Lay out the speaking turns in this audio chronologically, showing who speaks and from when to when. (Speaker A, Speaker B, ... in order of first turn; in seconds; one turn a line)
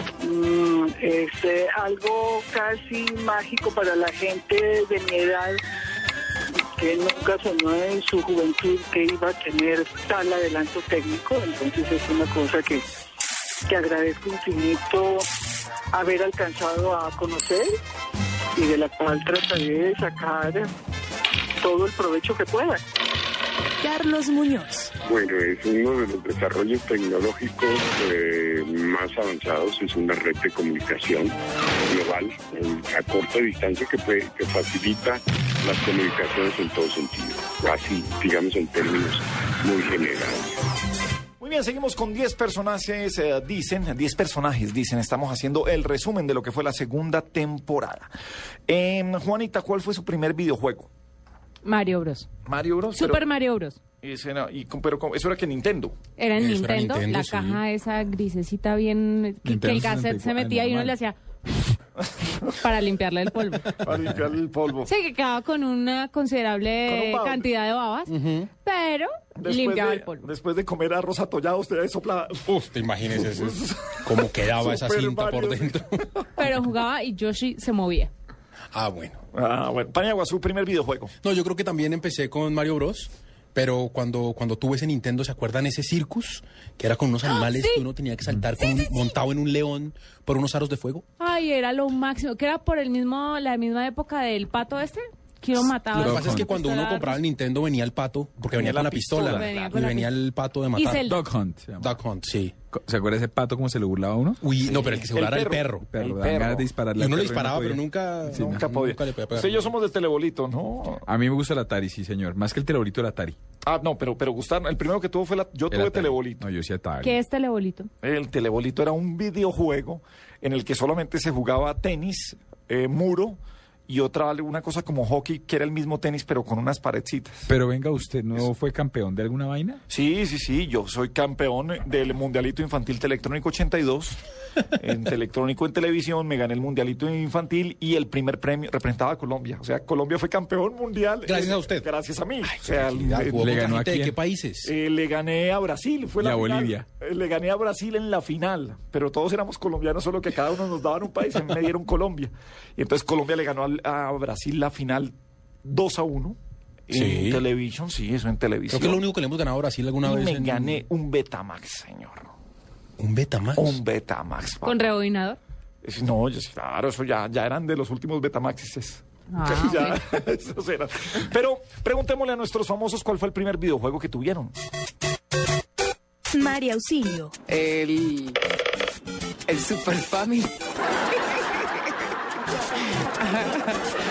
Speaker A: 0.2-5.6
Speaker A: 6.8-12.8
Speaker A: 13.7-15.3
Speaker A: 15.9-17.8
Speaker A: 18.6-20.7
Speaker A: 21.6-22.8
Speaker B: 23.8-24.9
Speaker C: 25.0-31.4
Speaker C: 31.9-40.6
Speaker D: 41.4-48.1
Speaker D: 48.7-50.9
Speaker E: 51.6-52.3
Speaker D: 52.5-53.3
Speaker E: 52.9-53.8
Speaker D: 54.0-56.0
Speaker E: 56.2-61.2
Speaker F: 56.4-57.6
Speaker G: 59.4-61.0
Speaker E: 62.6-63.7
Speaker D: 63.8-64.9
Speaker E: 64.9-70.3
Speaker D: 66.9-67.5
Speaker F: 68.1-68.5
Speaker D: 69.4-76.3
Speaker F: 72.5-76.0
Speaker E: 76.4-78.1
Speaker F: 78.7-79.2
Speaker D: 79.3-81.2
Speaker F: 81.2-91.0
Speaker E: 87.3-87.8
Speaker E: 91.2-97.2
Speaker F: 95.9-101.1
Speaker G: 96.0-96.5
Speaker D: 98.4-99.7
Speaker E: 99.2-100.1
Speaker E: 100.8-101.2
Speaker G: 101.1-102.0
Speaker F: 101.8-102.5
Speaker G: 102.7-104.4
Speaker F: 104.4-105.9
Speaker D: 104.6-106.7
Speaker G: 105.9-108.6
Speaker F: 107.0-109.7
Speaker D: 108.3-111.0
Speaker G: 111.0-113.4
Speaker D: 113.7-116.5
Speaker G: 115.7-117.2
Speaker E: 117.0-117.9
Speaker D: 118.0-127.5
Speaker G: 127.5-129.8
Speaker D: 129.9-134.2
Speaker D: 134.8-143.8
Speaker F: 141.2-141.9
Speaker F: 142.4-144.7
Speaker G: 143.4-144.2
Speaker D: 144.6-155.1
Speaker G: 146.2-146.9
Speaker D: 155.6-156.4
Speaker D: 156.9-159.1
Speaker F: 156.9-157.4
Speaker F: 158.7-160.8
Speaker D: 160.0-162.3
Speaker F: 163.0-163.8
Speaker D: 163.6-164.8
Speaker E: 164.6-165.4
Speaker D: 165.8-174.6
Speaker E: 169.3-170.0
Speaker B: 176.3-177.3
Speaker H: 177.5-178.4
Speaker H: 179.5-180.5
Speaker H: 183.2-183.7